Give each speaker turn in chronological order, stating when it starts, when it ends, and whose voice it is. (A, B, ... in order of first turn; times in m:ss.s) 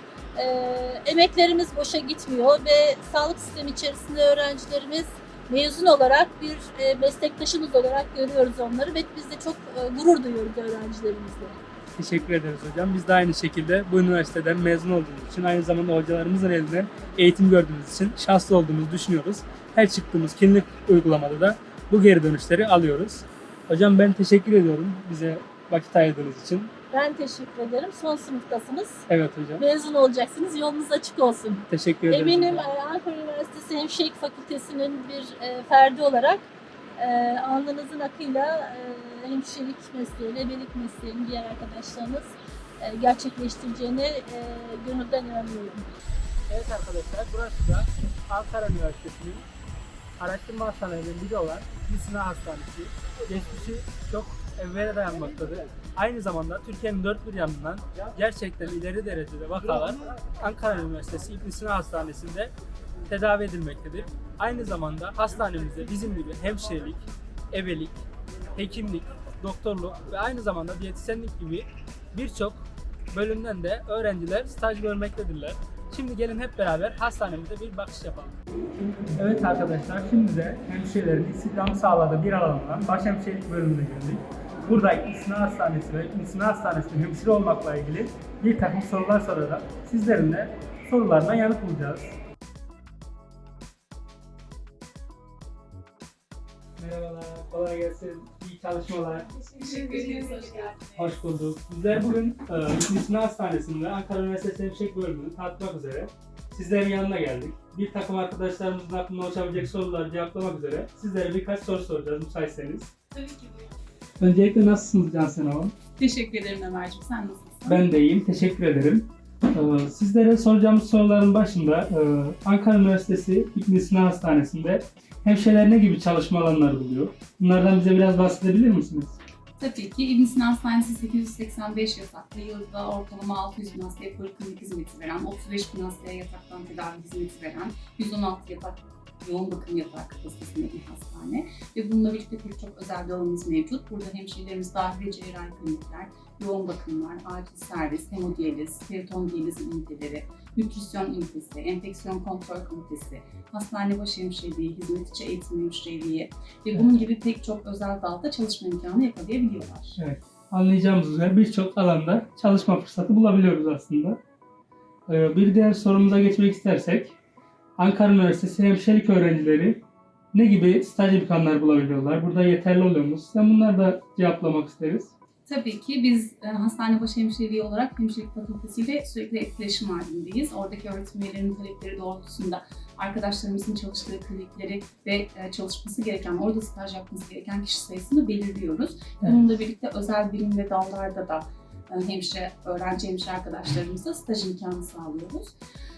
0:00.4-0:11.6 A
0:12.0-0:26.7 B
0:26.9-0:29.0 A
0:29.1-0:29.6 B
0:29.6-0:36.4 A
0:31.7-0:32.7 B
0:37.0-0:45.9 A
0:46.5-0:49.4 B
0:50.2-1:02.5 B
1:03.1-1:08.0 B
1:08.6-1:18.4 B
1:19.1-1:32.1 B
1:36.8-1:39.3 B
1:39.5-1:40.8 C
1:40.9-1:52.9 B
1:53.2-1:53.6 C
1:54.2-1:55.7 B
1:56.0-1:57.8 C
1:57.7-2:09.2 B
2:09.6-2:40.0 C
2:40.0-2:44.2 B
2:45.1-2:47.1 B
2:47.8-2:49.8 B
2:50.3-2:55.1 B
2:55.4-3:15.5 C